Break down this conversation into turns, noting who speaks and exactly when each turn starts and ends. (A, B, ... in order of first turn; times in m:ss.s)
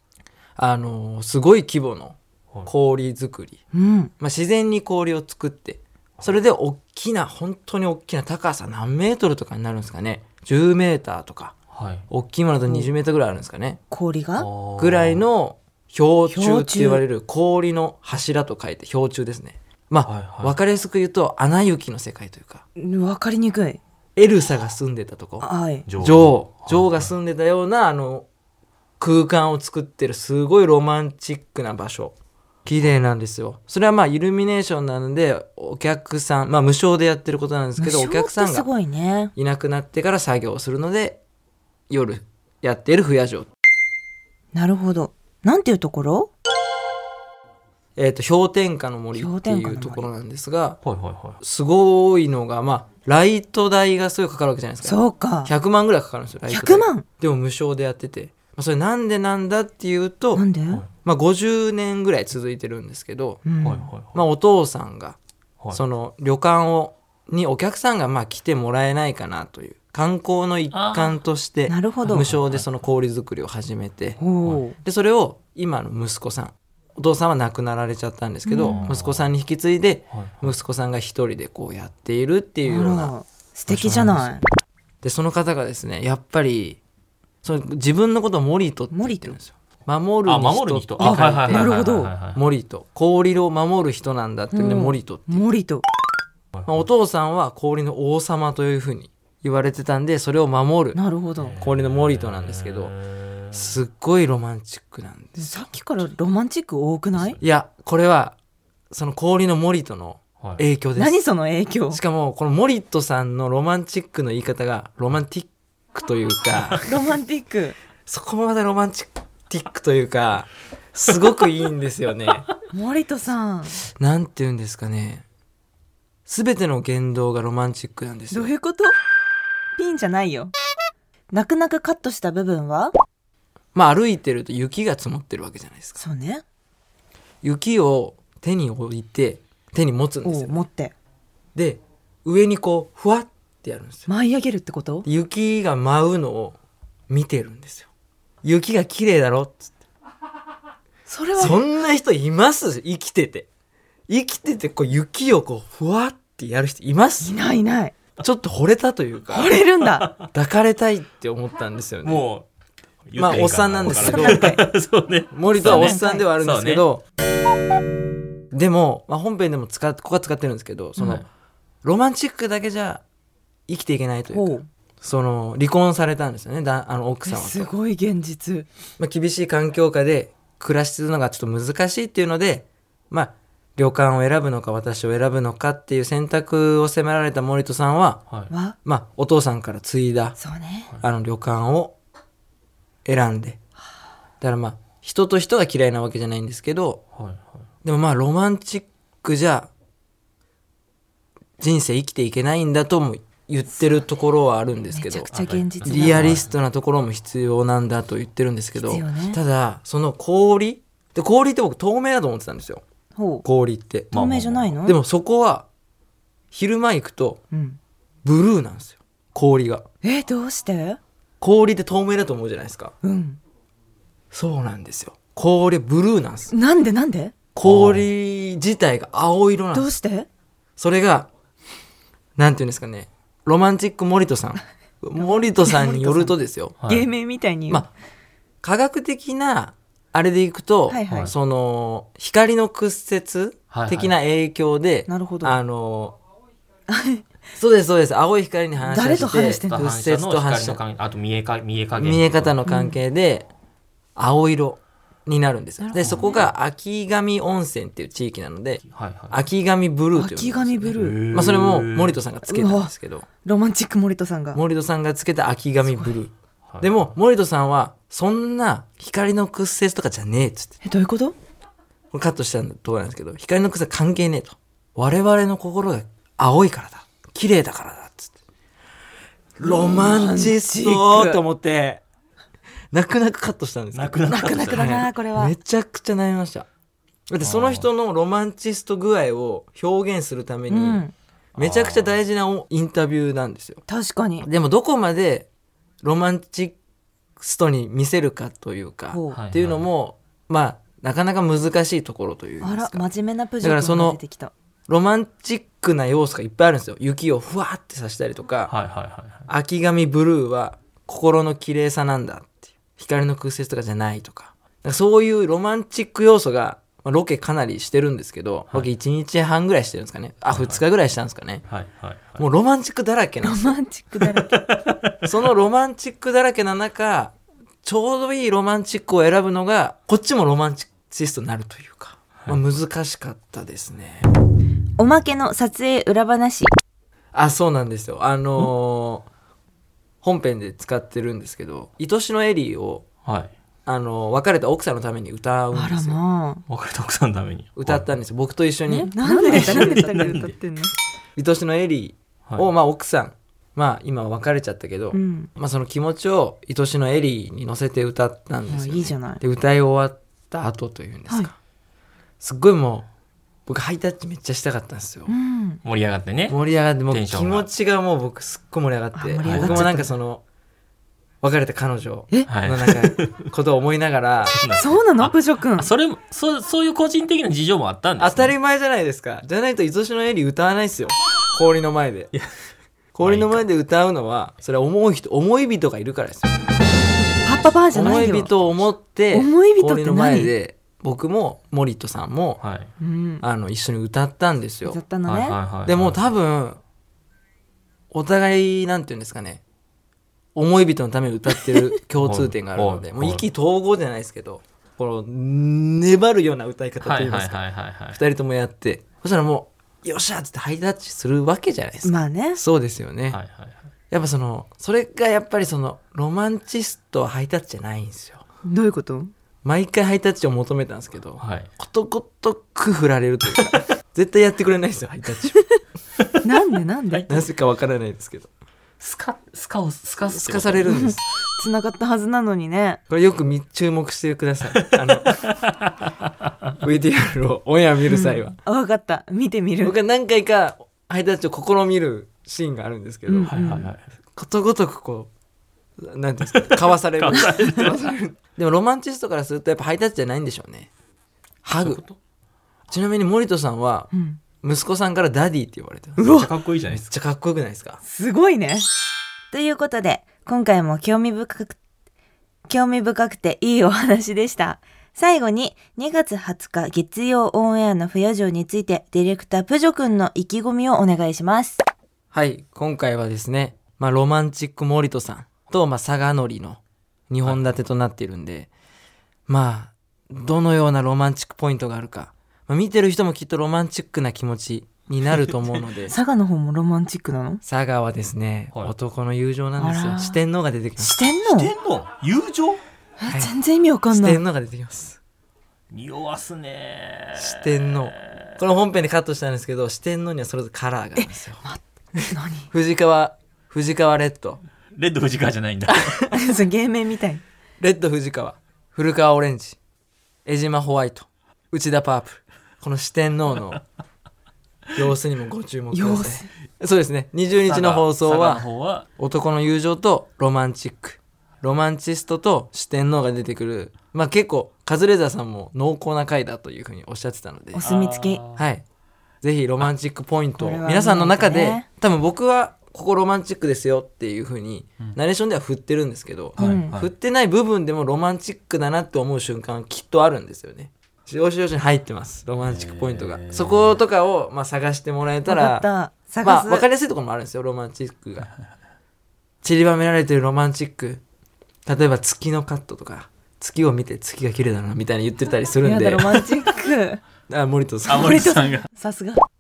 0:00.6-0:03.6 A
0:03.7-0:04.1 B
0:04.2-0:11.5 A
0:11.7-0:12.0 C
0:12.1-0:13.8 A
0:13.9-0:14.5 B
0:14.4-0:15.2 C
0:14.8-0:22.6 A
0:16.3-0:17.0 B
0:20.1-0:20.6 C
0:22.8-0:23.8 B
0:24.2-0:25.5 A
0:25.4-0:25.8 B
0:25.9-0:27.1 C
0:26.0-0:28.3 A
0:29.0-0:32.1 A
0:32.7-0:38.7 A
0:37.8-0:39.3 B
0:39.4-0:41.2 A
0:41.9-0:43.5 A
0:44.5-0:46.3 B
0:48.0-0:50.8 A
0:49.1-0:50.1 B
0:50.8-0:51.4 C
0:51.4-1:00.5 A
0:54.8-0:55.5 B
0:56.5-0:57.0 B
1:00.4-1:00.8 B
1:01.0-1:03.4 A
1:03.4-1:03.9 B
1:03.6-1:04.2 C
1:04.1-1:05.2 A
1:05.7-1:14.2 A
1:10.7-1:11.2 C
1:11.7-1:12.3 B
1:12.1-1:12.7 C
1:14.2-1:14.8 B
1:14.8-1:23.2 A
1:18.5-1:18.8 B
1:18.6-1:19.3 C
1:20.1-1:20.6 C
1:22.6-1:24.4 B
1:23.7-1:24.4 C
1:25.0-1:26.8 A
1:27.4-1:31.7 A
1:28.9-1:29.4 B
1:30.2-1:32.4 C
1:31.0-1:32.1 B
1:32.3-1:35.4 A
1:34.5-1:35.9 B
1:36.7-1:41.0 A
1:40.9-1:41.6 B
1:41.4-1:43.8 C
1:41.6-1:42.9 A
1:43.5-1:45.7 A
1:45.4-1:47.4 B
1:47.1-1:47.4 C
1:47.4-1:48.4 A
1:48.9-1:51.2 A
1:51.0-1:52.0 B
1:51.9-1:56.9 A
1:56.8-1:57.8 B
1:58.1-2:02.5 A
2:02.7-2:03.8 B
2:04.0-2:05.2 A
2:06.3-2:08.5 A
2:08.3-2:09.0 B
2:09.8-2:10.5 B
2:11.3-2:12.9 B
2:13.7-2:16.0 A
2:16.0-2:16.4 B
2:17.4-2:20.6 A
2:20.2-2:20.9 B
2:21.6-2:24.1 A
2:24.1-2:25.1 B
2:25.0-2:26.6 A
2:27.1-2:27.9 A
2:28.4-2:29.8 A
2:31.1-2:31.6 B
2:31.4-2:33.5 A
2:34.1-2:37.4 A
2:37.2-2:38.0 B
2:38.2-2:39.6 A
2:39.3-2:40.1 B
2:39.8-2:40.2 C
2:40.3-2:42.2 A
2:42.0-2:42.5 C
2:43.1-2:46.8 C
2:43.2-2:44.5 A
2:43.9-2:44.6 B
2:45.3-2:47.0 A
2:45.5-2:46.3 B
2:48.5-2:51.2 A
2:51.0-2:51.3 C
2:51.8-2:53.0 A
2:53.7-2:57.7 A
2:54.3-2:54.7 B
2:57.3-2:58.7 B
2:59.0-3:08.2 A
3:08.5-3:08.8 B
3:08.8-3:10.4 A
3:10.4-3:10.9 B
3:11.0-3:12.0 A
3:13.0-3:13.6 A
3:14.4-3:17.0 A
3:17.1-3:17.7 C
3:17.8-3:19.7 A
3:21.6-3:25.3 A
3:24.9-3:26.4 B
3:25.3-3:26.5 C
3:25.8-3:32.8 A
3:28.8-3:29.4 B
3:33.2-3:33.4 B
3:33.4-3:34.3 A
3:34.1-3:34.8 C
3:34.1-3:34.9 B
3:34.8-3:35.7 A
3:36.5-3:37.4 A
3:37.5-3:37.8 B
3:38.2-3:39.8 A
3:40.0-3:41.0 B
3:41.4-3:42.9 A
3:43.0-3:43.4 B
3:44.3-3:46.5 A
3:46.5-3:47.3 B
3:47.6-3:49.9 A
3:47.6-3:48.1 C
3:49.7-3:50.3 B
3:50.8-3:51.3 A
3:52.4-3:56.8 A
3:55.2-3:57.9 B
3:56.8-3:57.1 C
3:58.6-4:06.2 A
4:00.9-4:01.3 B
4:01.1-4:01.3 C
4:03.7-4:04.1 C
4:05.1-4:05.6 B
4:06.9-4:07.2 B
4:07.6-4:10.8 A
4:08.8-4:09.8 B
4:09.1-4:12.6 C
4:12.0-4:13.5 A
4:12.7-4:13.0 B
4:14.2-4:23.3 A
4:15.8-4:16.5 B
4:16.0-4:16.5 C
4:18.9-4:19.4 C
4:20.1-4:21.2 B
4:20.9-4:22.2 C
4:22.5-4:22.9 B
4:23.4-4:24.6 B
4:24.5-4:30.7 A
4:25.9-4:26.1 B
4:26.7-4:27.1 C
4:30.8-4:31.4 B
4:32.1-4:38.3 A
4:39.6-4:42.0 A
4:39.6-4:41.4 B
4:42.9-4:46.7 A
4:43.9-4:44.9 C
4:44.3-4:45.6 B
4:47.3-4:51.0 A
4:47.4-4:47.9 C
4:50.7-4:51.1 B
4:51.6-4:52.2 C
4:51.6-4:53.8 A
4:53.9-4:54.5 B
4:54.4-4:55.5 A
4:56.0-4:56.8 A
4:57.4-5:04.2 A
4:59.1-4:59.4 B
4:59.3-4:59.9 C
5:02.6-5:04.5 B
5:04.9-5:08.7 A
5:08.7-5:09.5 C
5:09.5-5:21.6 A
5:20.5-5:20.8 C
5:21.7-5:22.4 C
5:22.4-5:23.8 A
5:23.4-5:24.6 B
5:24.2-5:25.2 C
5:25.2-5:34.3 A
5:35.0-5:36.7 B
5:37.3-5:39.3 A
5:40.2-5:43.0 A
5:43.2-5:43.5 C
5:43.9-5:46.2 A
5:45.7-5:46.6 B
5:46.7-5:48.1 C
5:47.8-5:50.4 A
5:48.9-5:50.9 B
5:49.2-5:50.5 C
5:51.4-6:01.5 A
5:55.1-5:55.5 B
5:58.7-5:59.4 B
6:01.3-6:01.5 B
6:02.4-6:03.1 A
6:03.7-6:05.4 A
6:05.3-6:05.8 B
6:05.8-6:07.7 C
6:06.5-6:10.4 A
6:09.2-6:10.1 B
6:09.4-6:09.9 C
6:11.4-6:14.6 A
6:12.5-6:13.5 C
6:14.5-6:18.6 C
6:14.8-6:15.9 B
6:18.2-6:22.3 A
6:23.2-6:26.5 A
6:23.2-6:23.6 C
6:27.4-6:28.5 B
6:27.9-6:32.6 A
6:29.3-6:30.5 B
6:32.6-6:32.9 C
6:33.0-6:33.4 B
6:33.4-6:35.0 A
6:34.8-6:35.6 B
6:35.2-6:36.2 C
6:35.9-6:36.8 A
6:38.1-6:39.6 A
6:40.6-6:53.4 A
6:42.2-6:43.4 C
6:47.0-6:48.2 C
6:52.0-6:52.6 B
6:53.3-6:53.8 C
6:54.1-6:58.4 A
6:58.6-6:59.3 B
6:59.6-7:05.7 A
7:01.4-7:01.7 C
7:06.4-7:07.3 B
7:07.1-7:07.4 C
7:07.3-7:08.5 A
7:09.0-7:11.1 C
7:10.3-7:11.2 A
7:11.6-7:13.0 B
7:13.1-7:15.4 A
7:14.8-7:15.9 C
7:16.8-7:18.6 A
7:18.1-7:20.0 B
7:19.8-7:23.7 A
7:23.3-7:23.9 B
7:23.4-7:24.0 C
7:24.4-7:25.3 A
7:26.0-7:30.9 A
7:26.5-7:28.0 C
7:27.4-7:28.1 B
7:31.6-7:32.0 A
7:31.8-7:32.2 C
7:32.9-7:36.4 A
7:34.1-7:34.4 B
7:36.2-7:36.5 B
7:36.2-7:37.1 C
7:36.9-7:38.0 A
7:38.0-7:38.9 B
7:39.5-7:41.8 B
7:42.7-7:51.8 B
7:52.3-7:58.7 A
7:57.4-7:57.7 C
7:59.5-8:06.2 A
8:06.0-8:07.6 B
8:07.6-8:11.2 A
8:09.8-8:10.4 B
8:11.0-8:11.7 B
8:11.4-8:12.8 C
8:13.2-8:14.4 B
8:13.3-8:13.5 A
8:14.1-8:15.2 A
8:15.9-8:18.6 C
8:17.4-8:21.6 A
8:21.2-8:22.7 B
8:22.7-8:24.6 A
8:24.9-8:26.3 C
8:26.3-8:27.4 B
8:27.8-8:29.8 A
8:30.5-8:33.8 A
8:35.0-8:38.7 A
8:35.9-8:36.5 B
8:37.6-8:39.1 C
8:39.2-8:47.9 A
8:47.8-8:48.4 B
8:47.8-8:48.7 C
8:48.6-8:48.8 A
8:49.4-9:05.9 A
8:50.6-8:51.9 B
8:56.6-8:57.1 C
8:56.6-8:56.9 B
9:02.6-9:04.0 C
9:05.5-9:06.8 B
9:06.4-9:08.5 A
9:09.6-9:11.2 A
9:11.9-9:16.6 A
9:15.8-9:17.2 B
9:17.5-9:18.5 A
9:18.1-9:18.9 C
9:18.1-9:19.5 B